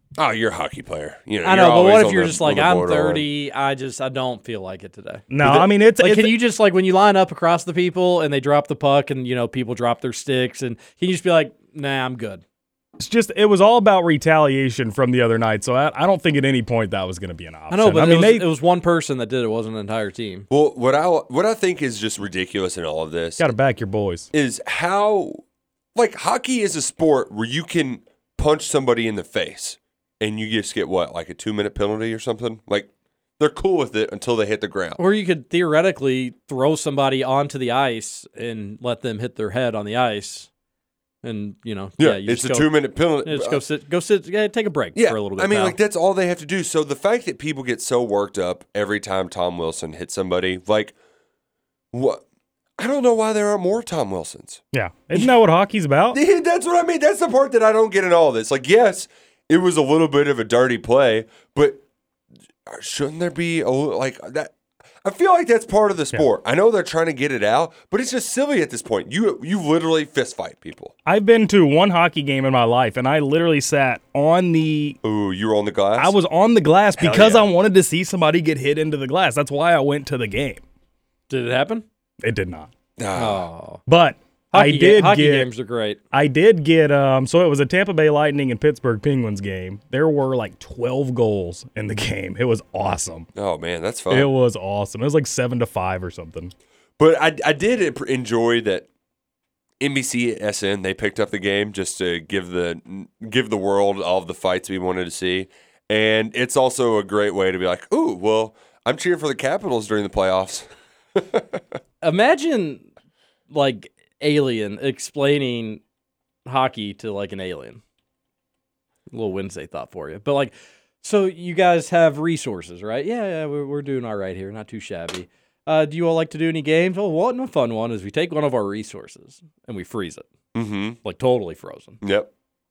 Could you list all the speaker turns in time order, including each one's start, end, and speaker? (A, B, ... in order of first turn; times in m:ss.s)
0:00.2-0:03.3 A
0:01.4-0:12.4 B
0:05.3-0:06.4 C
0:13.0-0:18.5 C
0:17.7-0:20.5 B
0:20.5-0:23.6 A
0:23.4-0:24.3 C
0:24.3-0:25.4 A
0:26.0-0:35.0 A
0:35.0-0:40.5 B
0:41.2-0:45.8 B
0:42.0-0:43.6 A
0:45.0-0:51.0 A
0:51.9-0:52.2 A
0:52.8-0:54.6 A
0:54.7-0:56.2 C
0:56.1-1:01.8 A
1:02.7-1:10.9 A
1:11.1-1:15.0 C
1:15.0-1:16.2 A
1:16.0-1:20.6 C
1:17.0-1:17.5 A
1:21.3-1:21.8 B
1:22.2-1:22.7 C
1:23.0-1:23.4 A
1:23.2-1:23.8 B
1:23.9-1:25.5 C
1:24.5-1:26.0 B
1:26.1-1:33.3 C
1:33.4-1:34.3 A
1:34.1-1:36.5 C
1:37.0-1:38.9 A
1:39.8-1:51.6 A
1:52.0-1:52.9 B
1:53.5-1:55.8 B
1:56.5-1:57.8 B
1:59.1-2:10.3 B
2:10.5-2:11.0 A
2:11.0-2:12.0 B
2:12.0-2:12.3 A